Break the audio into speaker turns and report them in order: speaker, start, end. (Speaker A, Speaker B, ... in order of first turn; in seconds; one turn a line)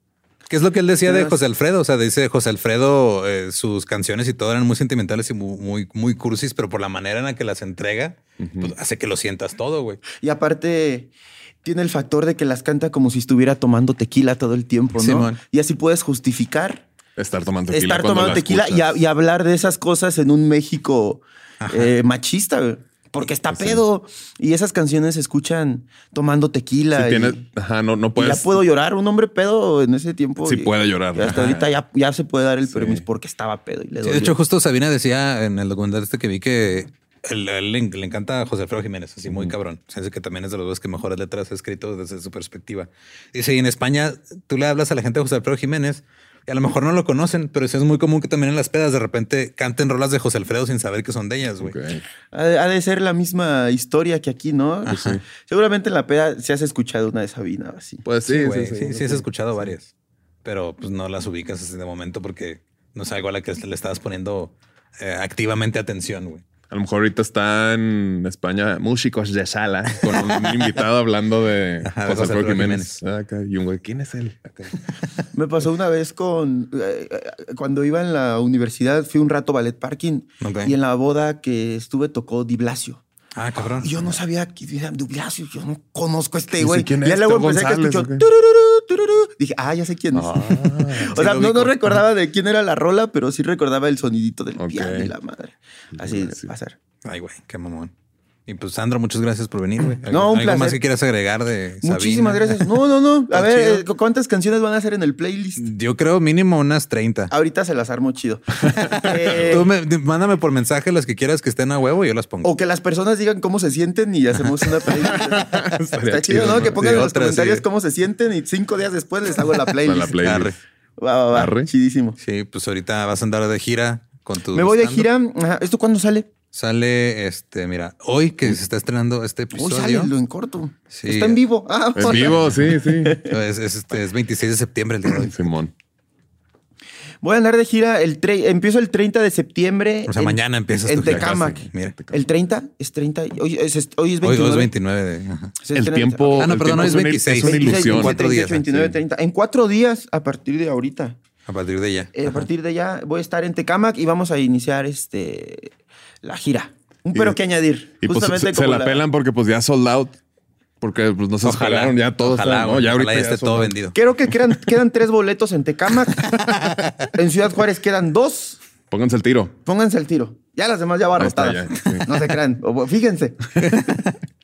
Speaker A: 0.5-10.0
Speaker B: 1.1-1.4
Speaker C: 8.4-8.7
Speaker B: 10.2-11.1
Speaker B: 11.6-16.9
Speaker A: 14.9-15.4
Speaker C: 17.2-19.0
Speaker B: 17.7-27.4
Speaker A: 21.6-21.9
Speaker C: 23.5-23.8
Speaker C: 26.9-28.6
Speaker B: 28.1-34.3
Speaker C: 30.4-31.7
Speaker A: 31.2-31.6
Speaker C: 32.7-33.0
Speaker A: 34.0-51.8
Speaker C: 39.3-39.5
Speaker C: 51.6-52.0
Speaker B: 52.3-58.0
Speaker A: 54.9-55.2
Speaker C: 54.9-55.2
Speaker C: 58.0-59.7
Speaker A: 58.2-59.9
Speaker A: 60.4-66.4
Speaker C: 66.7-74.8
Speaker A: 70.0-70.7
Speaker A: 71.8-73.0
Speaker B: 75.3-83.0
Speaker A: 80.4-80.7
Speaker A: 83.3-83.9
Speaker B: 83.6-96.8
Speaker C: 86.5-88.3
Speaker C: 90.1-91.2
Speaker A: 91.1-92.0
Speaker C: 94.6-95.1
Speaker C: 96.0-96.5
Speaker A: 97.0-97.9
Speaker A: 98.5-102.7
Speaker B: 100.1-100.8
Speaker B: 101.8-105.6
Speaker A: 103.3-103.8
Speaker A: 105.6-107.3
Speaker B: 107.3-109.7
Speaker A: 108.6-112.5
Speaker B: 112.4-120.5
Speaker C: 114.9-117.0
Speaker A: 116.3-117.6
Speaker C: 119.8-120.5
Speaker A: 120.2-120.5
Speaker B: 121.0-122.2
Speaker C: 121.3-121.7
Speaker A: 122.2-125.1
Speaker B: 124.5-126.3
Speaker A: 126.5-130.1
Speaker B: 129.5-133.3
Speaker A: 130.9-131.4
Speaker C: 131.9-133.2
Speaker A: 132.0-135.5
Speaker C: 135.1-135.7
Speaker B: 137.2-144.7
Speaker A: 140.1-141.9
Speaker C: 141.0-142.2
Speaker A: 144.2-145.6
Speaker B: 145.6-151.2
Speaker C: 145.7-148.2
Speaker A: 146.4-148.8
Speaker A: 151.4-152.5
Speaker B: 152.1-159.0
Speaker C: 158.0-160.2
Speaker C: 160.8-163.7
Speaker A: 161.4-163.9
Speaker B: 163.9-166.5
Speaker A: 166.2-167.1
Speaker B: 167.1-168.6
Speaker C: 168.9-169.6
Speaker B: 169.6-174.0
Speaker C: 171.2-172.1
Speaker A: 173.6-174.2